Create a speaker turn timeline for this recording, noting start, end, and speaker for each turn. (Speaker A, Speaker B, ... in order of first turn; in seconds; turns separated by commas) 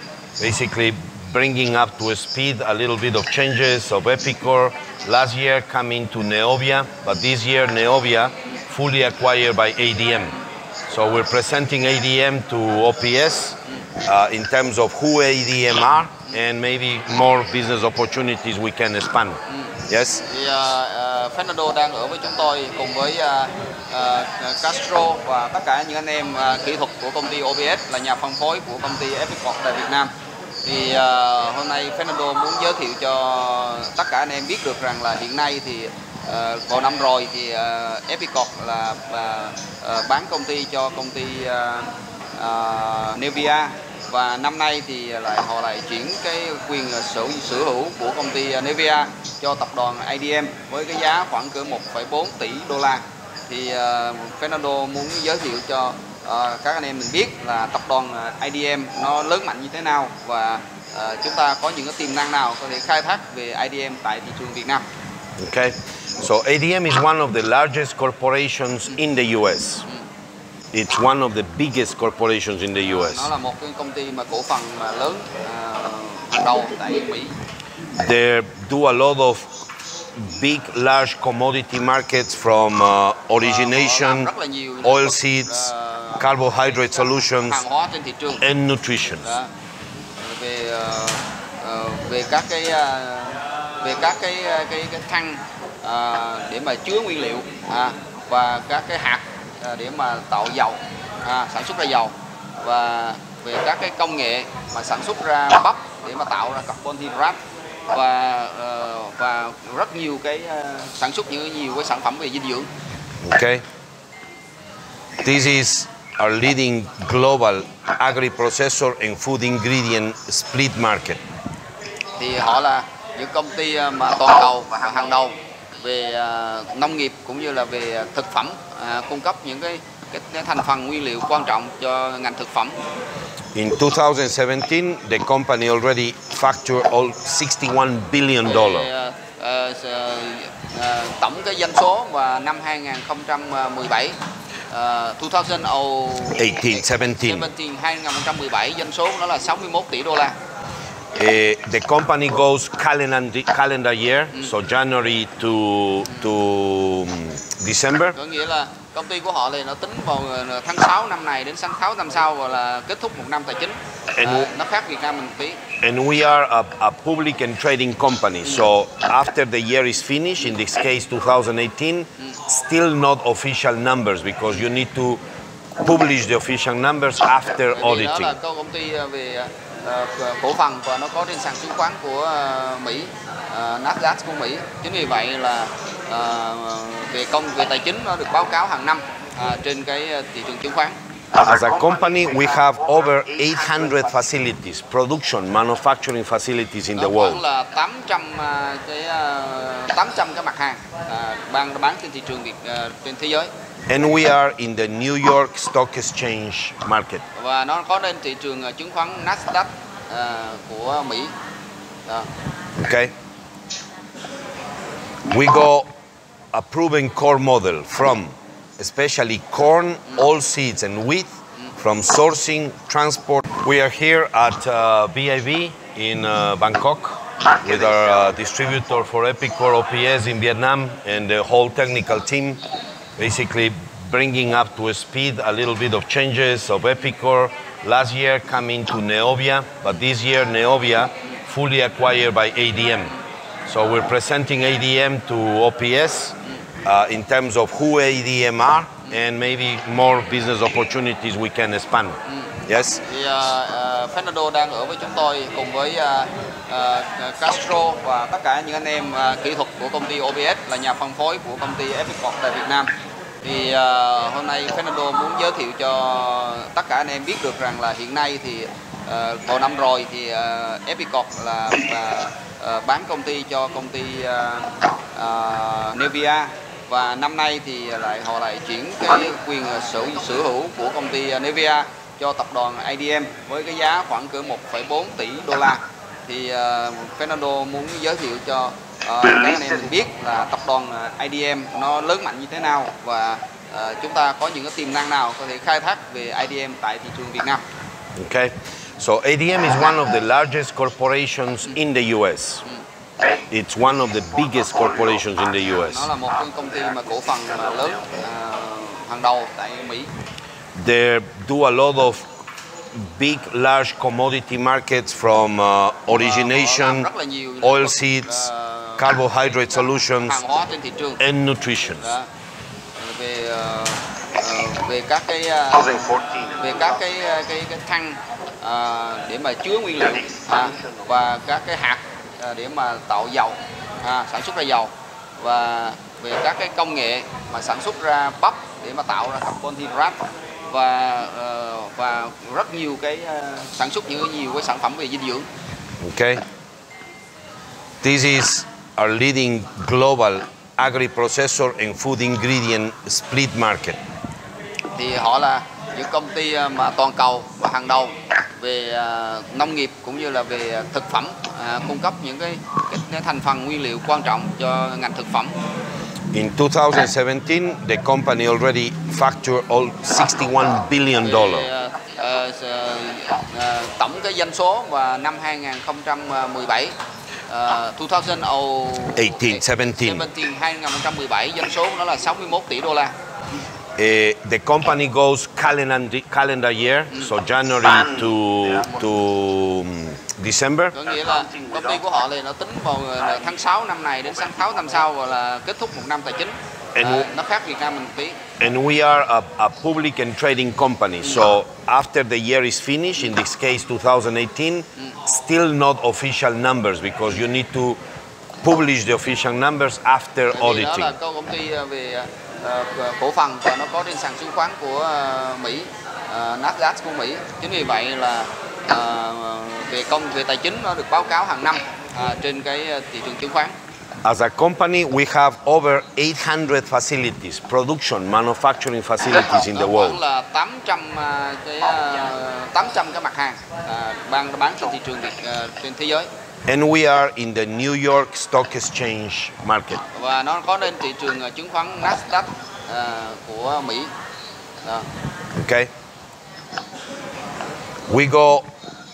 Speaker A: 0.4-20.2, Speaker B: 19.5-30.1, Speaker B: 30.6-64.8, Speaker A: 65.4-69.9, Speaker A: 70.7-73.3, Speaker B: 72.9-77.4, Speaker A: 77.9-79.6, Speaker A: 80.1-84.3, Speaker B: 83.4-86.2, Speaker A: 84.8-87.7, Speaker B: 87.4-88.5, Speaker A: 88.4-89.3, Speaker B: 89.2-89.5, Speaker B: 90.2-107.4, Speaker B: 107.9-112.7, Speaker A: 113.2-113.6, Speaker A: 115.2-121.2, Speaker B: 122.2-132.8, Speaker A: 133.6-138.9, Speaker B: 138.4-144.2, Speaker B: 144.7-150.3, Speaker A: 146.4-147.5, Speaker A: 151.1-158.2, Speaker B: 158.1-165.6, Speaker A: 164.2-164.5, Speaker A: 165.8-175.2, Speaker A: 175.8-178.4, Speaker B: 177.7-191.0, Speaker A: 191.3-197.4, Speaker B: 197.0-203.5, Speaker A: 203.9-207.2, Speaker B: 207.3-211.3, Speaker A: 212.8-213.1, Speaker A: 215.3-215.9, Speaker A: 216.5-232.7, Speaker A: 233.2-253.0, Speaker B: 252.3-262.9, Speaker B: 263.4-297.6, Speaker A: 298.2-302.6, Speaker A: 303.5-306.1, Speaker B: 305.8-310.1, Speaker A: 310.8-312.3, Speaker A: 312.9-317.1, Speaker B: 316.1-319.1, Speaker A: 317.6-320.4, Speaker B: 320.2-321.2, Speaker A: 321.2-322.1, Speaker B: 322.0-322.3, Speaker B: 323.0-345.5, Speaker A: 346.0-346.4, Speaker A: 348.0-354.0, Speaker B: 354.9-365.6, Speaker A: 366.3-371.7, Speaker B: 371.2-376.9, Speaker B: 377.5-383.1, Speaker A: 379.2-380.3, Speaker A: 384.0-391.0, Speaker B: 390.9-398.4, Speaker A: 397.0-397.3, Speaker A: 398.6-408.0, Speaker A: 408.6-411.1, Speaker B: 410.5-423.8, Speaker A: 424.2-430.2, Speaker B: 429.3-436.3, Speaker A: 436.7-440.0, Speaker B: 440.1-444.1, Speaker A: 445.5-445.9, Speaker A: 448.1-448.7